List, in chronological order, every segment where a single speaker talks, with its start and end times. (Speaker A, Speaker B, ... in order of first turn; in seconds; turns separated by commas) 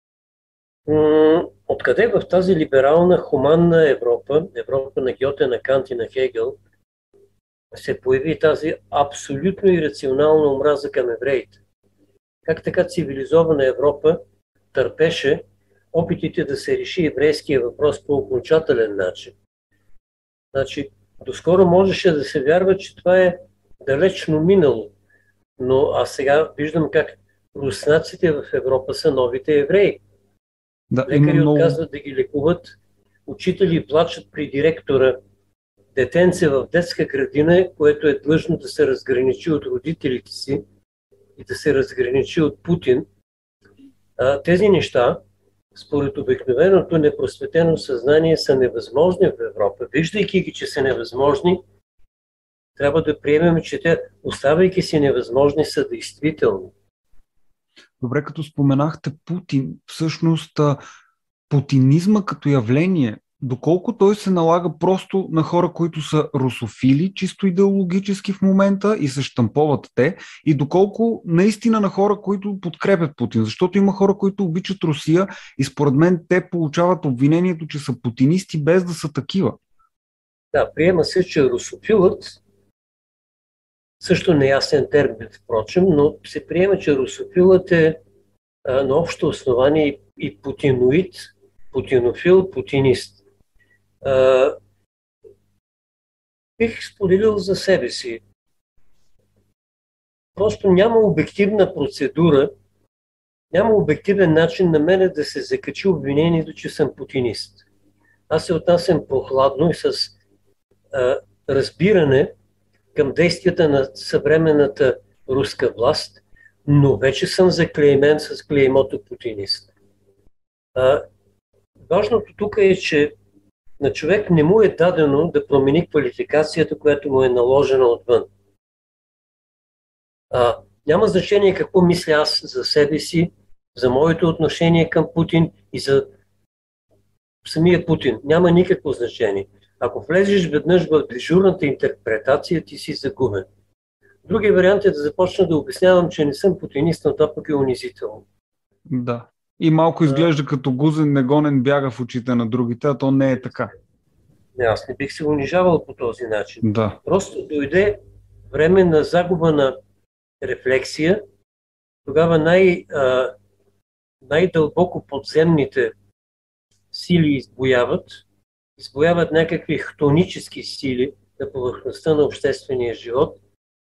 Speaker A: 0.9-6.6, Speaker A: 7.7-11.6, Speaker A: 12.4-14.2, Speaker A: 14.7-19.4, Speaker A: 20.5-24.9, Speaker A: 25.6-30.0, Speaker B: 30.9-31.8, Speaker A: 31.1-35.2, Speaker A: 36.0-40.6, Speaker A: 41.4-43.1, Speaker A: 44.2-45.2, Speaker A: 45.8-51.6, Speaker A: 52.8-56.7, Speaker B: 58.0-60.8, Speaker B: 61.5-79.6, Speaker A: 80.5-82.4, Speaker A: 84.0-88.0, Speaker A: 88.7-93.2, Speaker A: 94.0-94.6, Speaker A: 96.6-98.2, Speaker A: 100.4-102.5, Speaker A: 103.5-107.7, Speaker A: 108.3-110.2, Speaker A: 110.9-112.3, Speaker A: 112.9-119.7, Speaker A: 120.8-121.0, Speaker A: 121.9-123.1, Speaker A: 123.8-128.3, Speaker A: 130.3-136.1, Speaker A: 137.4-143.5, Speaker A: 144.2-148.3, Speaker B: 148.9-153.7, Speaker A: 154.6-159.8, Speaker B: 156.6-157.0, Speaker A: 160.4-161.2, Speaker A: 162.1-163.3, Speaker A: 164.2-165.9, Speaker A: 166.9-168.2, Speaker A: 168.8-173.4